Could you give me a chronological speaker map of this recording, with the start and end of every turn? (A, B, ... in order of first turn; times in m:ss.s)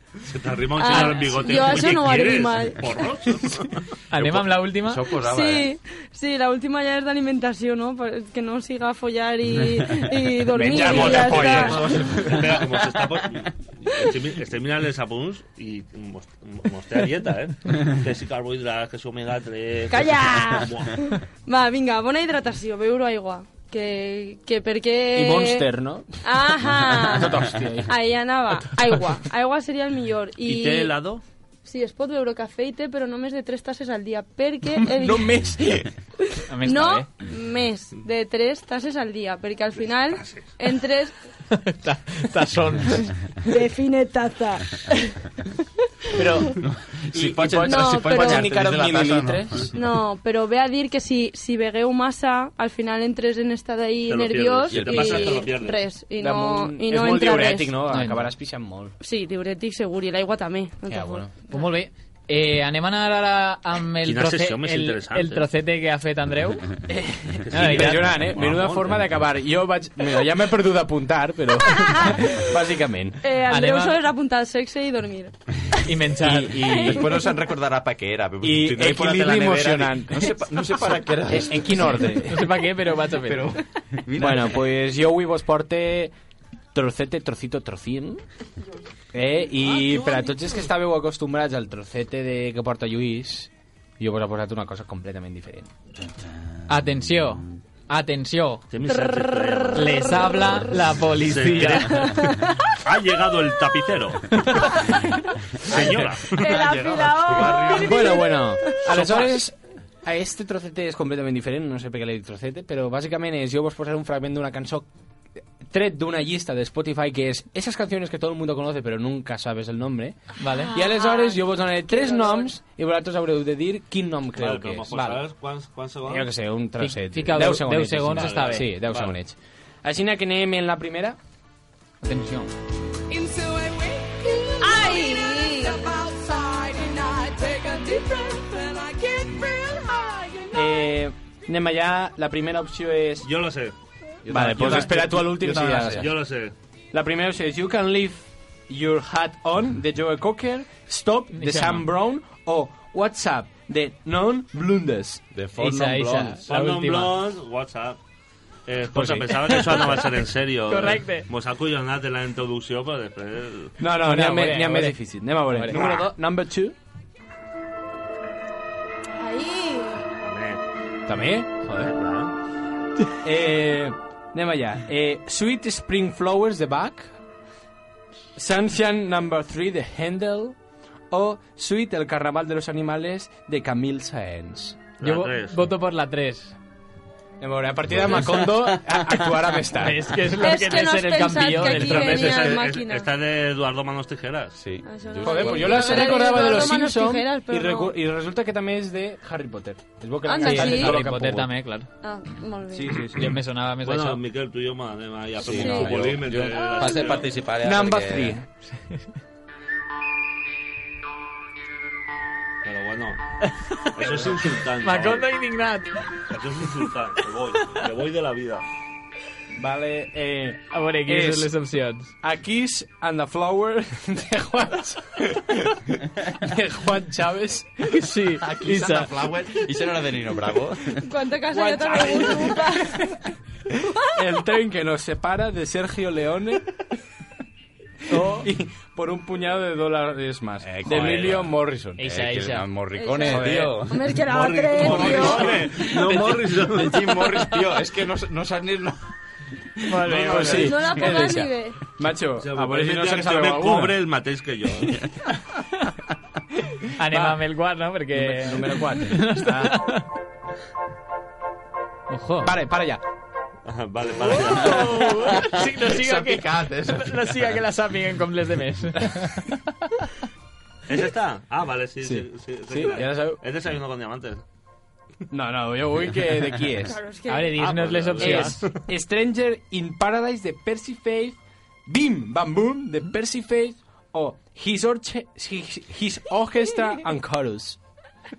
0:00.2-0:03.8 A
0:00.8-0:03.1 B
0:04.1-0:05.0 C
0:04.1-0:05.7 D
0:05.2-0:12.1 B
0:10.6-0:12.3 E
0:10.7-0:20.9 A
0:10.8-0:12.6 D
0:19.9-0:25.6 B
0:25.1-0:26.2 E
0:26.2-0:30.9 B
0:26.8-0:27.9 E
0:30.4-0:31.2 A
0:31.6-0:35.3 B
0:34.8-0:35.9 E
0:36.3-0:41.2 B
0:36.5-0:37.1 C
0:40.1-0:40.5 A
0:41.5-0:43.1 C
0:43.4-0:45.2 B
0:46.1-0:46.6 E
0:46.6-0:49.7 D
0:47.1-0:49.7 E
0:47.7-0:48.6 B
0:49.7-0:57.8 B
0:54.1-0:55.8 A
0:54.7-0:55.5 D
0:56.2-0:58.9 E
0:57.9-0:58.3 C
0:59.0-1:01.2 B
1:00.9-1:01.3 E
1:01.5-1:06.7 C
1:04.0-1:05.4 A
1:06.9-1:13.2 E
1:07.5-1:08.1 C
1:07.6-1:08.9 A
1:08.4-1:08.8 D
1:11.8-1:12.2 B
1:13.2-1:15.3 B
1:13.5-1:14.0 C
1:15.8-1:16.7 C
1:16.2-1:17.1 E
1:16.8-1:22.1 D
1:18.4-1:22.5 E
1:22.3-1:23.6 C
1:23.2-1:24.6 D
1:24.2-1:26.1 E
1:26.7-1:28.2 E
1:29.1-1:35.7 E
1:30.0-1:30.2 B
1:36.7-1:38.6 C
1:38.7-1:40.4 A
1:38.9-1:40.7 B
1:39.7-1:42.1 C
1:41.2-1:42.2 A
1:41.9-1:42.6 B
1:42.8-1:44.4 A
1:45.6-1:48.2 D
1:45.7-1:46.6 A
1:46.4-1:48.7 B
1:47.8-1:54.9 E
1:55.6-2:05.2 E
2:00.4-2:00.7 C
2:00.7-2:02.5 B
2:04.4-2:06.3 A
2:06.0-2:11.2 E
2:06.8-2:08.7 C
2:08.1-2:09.2 A
2:12.0-2:12.5 C
2:14.6-2:16.1 B
2:17.0-2:20.5 B
2:20.5-2:23.3 E
2:23.2-2:23.7 A
2:24.2-2:26.1 E
2:24.2-2:26.1 D
2:25.9-2:26.5 A
2:26.9-2:35.2 E
2:31.3-2:31.8 C
2:35.3-2:36.4 D
2:35.6-2:37.1 C
2:36.5-2:38.0 A
2:38.7-2:43.7 A
2:38.9-2:39.7 E
2:39.5-2:40.0 C
2:40.7-2:41.3 C
2:43.8-2:46.8 E
2:44.0-2:46.0 C
2:45.7-2:46.1 A
2:49.2-2:50.0 B
2:50.2-2:50.6 A
2:51.1-2:51.9 E
2:51.9-2:52.3 A
2:53.2-2:57.1 E
2:58.4-3:00.6 E
3:01.1-3:04.8 E
3:05.0-3:05.6 A
3:05.0-3:06.5 C
3:07.4-3:10.1 E
3:07.9-3:08.8 D
3:09.8-3:12.5 C
3:10.4-3:13.1 B
3:11.6-3:14.6 A
3:14.5-3:16.5 D
3:14.8-3:17.9 B
3:15.2-3:21.5 E
3:20.2-3:21.0 B
3:20.4-3:21.9 C
3:22.0-3:23.0 B
3:22.8-3:23.1 E
3:23.1-3:24.2 C
3:23.8-3:27.3 A
3:25.4-3:25.9 B
3:25.4-3:28.4 D
3:26.5-3:27.1 B
3:27.6-3:28.4 E
3:32.6-3:33.2 A
3:33.9-3:35.3 A
3:34.8-3:36.0 C
3:36.3-3:38.6 A
3:39.6-3:41.5 E
3:40.7-3:42.1 C
3:42.2-3:47.9 E
3:47.9-3:49.1 C
3:48.4-3:51.1 D
3:51.0-3:53.0 B
3:51.5-3:53.0 E
3:54.1-3:56.8 E
3:58.1-3:58.5 C
3:58.1-4:02.0 E
4:00.6-4:04.1 D
4:02.0-4:02.7 C
4:02.9-4:05.5 B
4:03.3-4:03.7 E
4:04.3-4:07.2 A
4:04.8-4:09.0 D
4:09.8-4:10.7 C
4:10.0-4:10.4 D
4:10.1-4:14.0 E
4:10.5-4:11.8 B
4:12.4-4:15.0 A
4:16.9-4:20.1 C
4:17.1-4:17.4 E
4:18.1-4:19.8 E
4:22.1-4:22.6 C
4:22.4-4:23.0 E
4:23.6-4:25.1 A
4:24.4-4:29.4 C
4:25.3-4:27.4 D
4:30.9-4:34.4 A
4:32.0-4:33.4 E
4:35.3-4:37.0 E
4:36.8-4:37.6 B
4:37.3-4:38.6 C
4:37.6-4:38.7 A
4:38.2-4:47.8 E